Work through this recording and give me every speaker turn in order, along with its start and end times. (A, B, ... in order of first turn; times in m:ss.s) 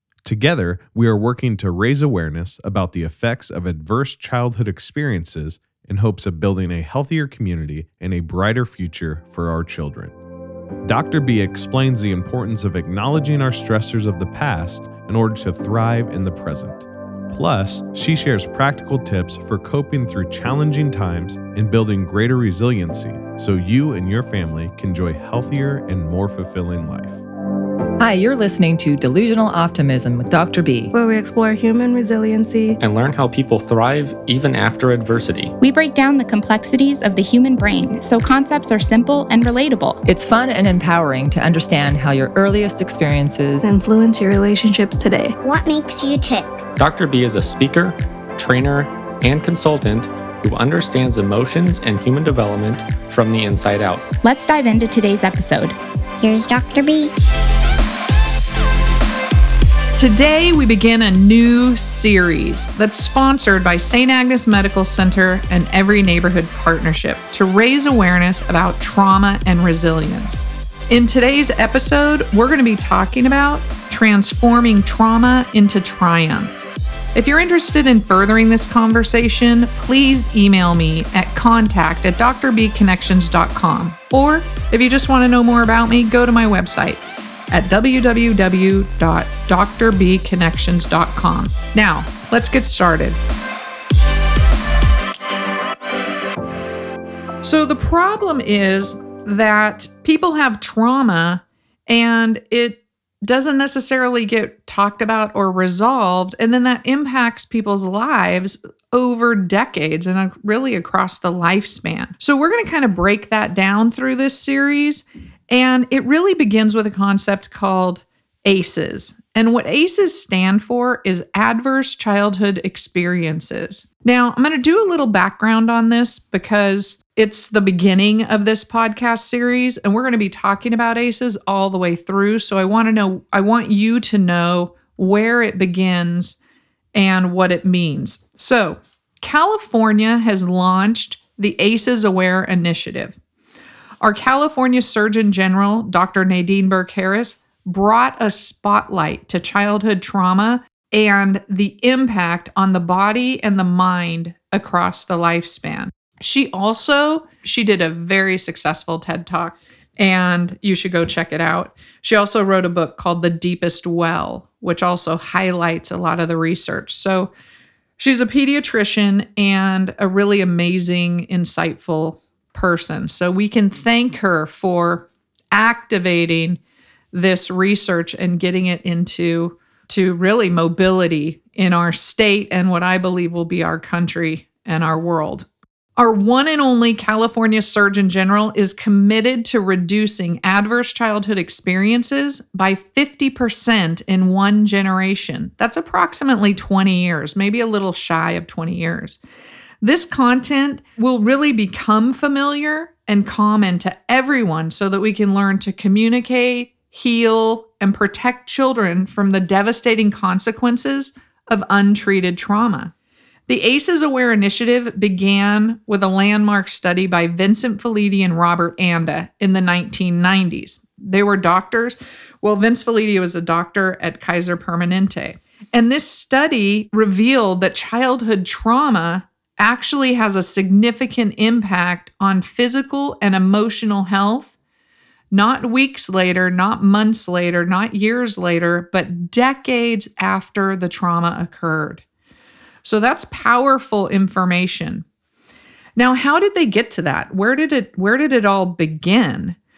0:00.2-0:10.1 A
0:10.8-0:27.2 A
0:28.0-0:30.9 B
0:30.9-0:32.8 C
0:32.8-0:35.5 D
0:35.6-0:40.0 E
0:40.0-0:43.6 B
0:43.6-0:45.3 C
0:45.4-0:46.6 F
0:46.8-0:54.0 D
0:54.2-0:55.8 E
0:56.2-0:57.1 F
1:00.0-1:16.5 G
1:17.1-1:33.2 G
1:37.4-2:16.4 G
2:16.9-2:23.2 G
2:24.0-2:47.3 G
2:48.0-2:56.6 G
2:57.1-3:19.2 G
3:19.8-3:32.9 G
3:33.5-3:54.5 G
3:55.3-4:02.0 G
4:02.8-4:05.0 G
4:06.0-4:09.6 G